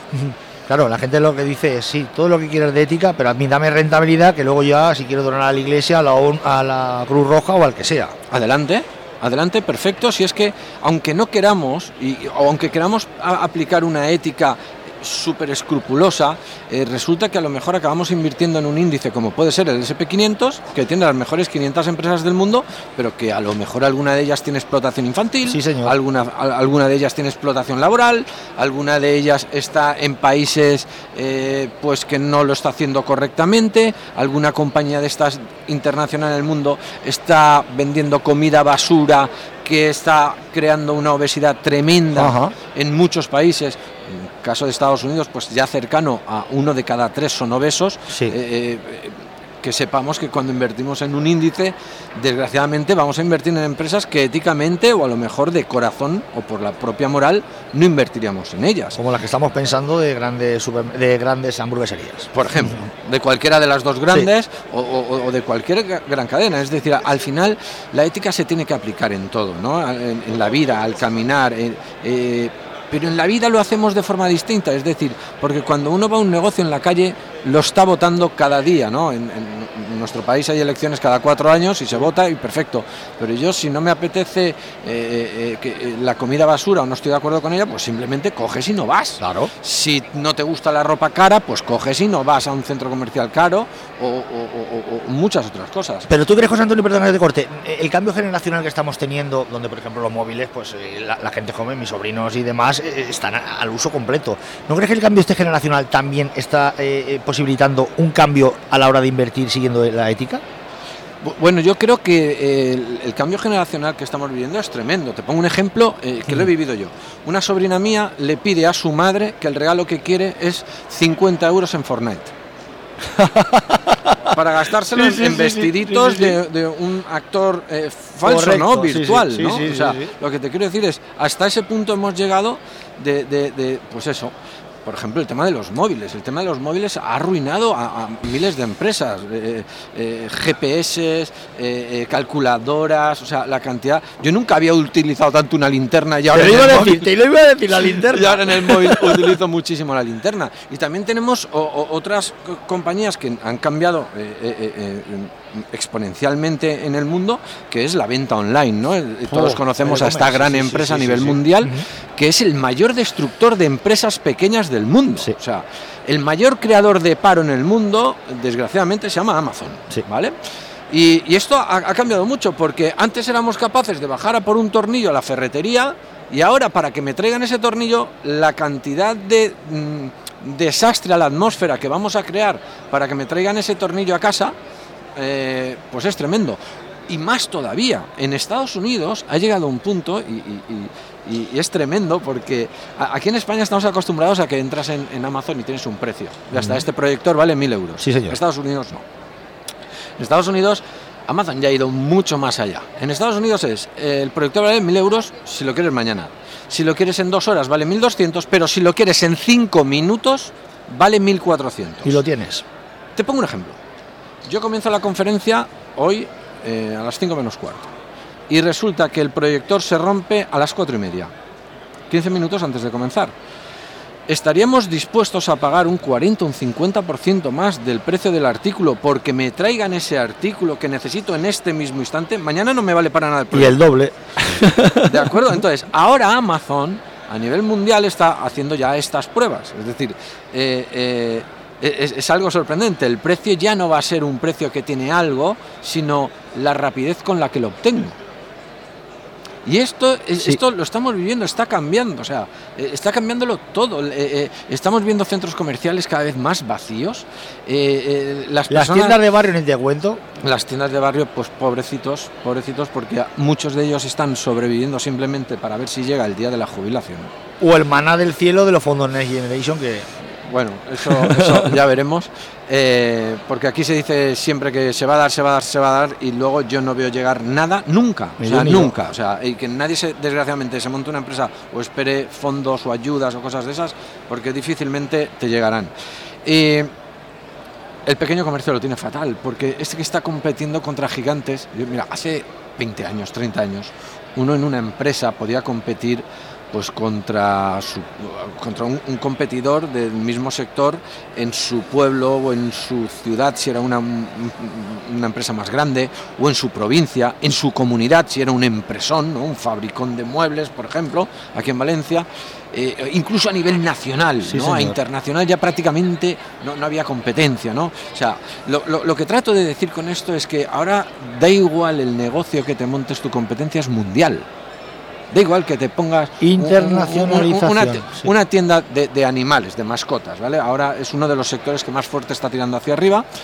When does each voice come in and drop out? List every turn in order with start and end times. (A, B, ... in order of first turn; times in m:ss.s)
0:00.1-0:08.2 A
0:08.3-0:59.0 B
0:25.5-0:26.0 A
0:42.2-0:42.6 A
0:59.0-1:02.7 A
1:02.3-1:36.1 B
1:29.2-1:29.5 A
1:36.1-1:50.4 A
1:51.2-2:02.3 B
2:03.2-2:04.2 A
2:04.3-2:27.1 B
2:04.9-2:06.4 A
2:08.2-2:10.1 A
2:26.3-2:29.4 A
2:27.8-2:50.4 B
2:39.3-2:41.8 A
2:50.9-3:04.6 B
3:05.2-3:19.0 B
3:16.6-3:16.8 A
3:18.0-3:18.4 A
3:20.2-3:32.2 B
3:32.0-3:32.6 A
3:33.2-3:33.8 B
3:34.4-3:37.9 B
3:38.5-3:41.3 B
3:42.1-3:43.3 B
3:44.3-3:53.8 B
3:53.5-3:55.3 A
3:55.0-4:08.2 B
4:09.6-4:19.2 B
4:18.7-4:20.2 A
4:20.4-4:27.3 B
4:27.6-4:30.1 A
4:30.4-4:45.9 B
4:38.4-4:39.0 A
4:46.4-4:46.9 B
4:48.1-5:24.4 B
5:14.4-5:15.0 A
5:25.3-5:33.3 B
5:26.4-5:28.3 A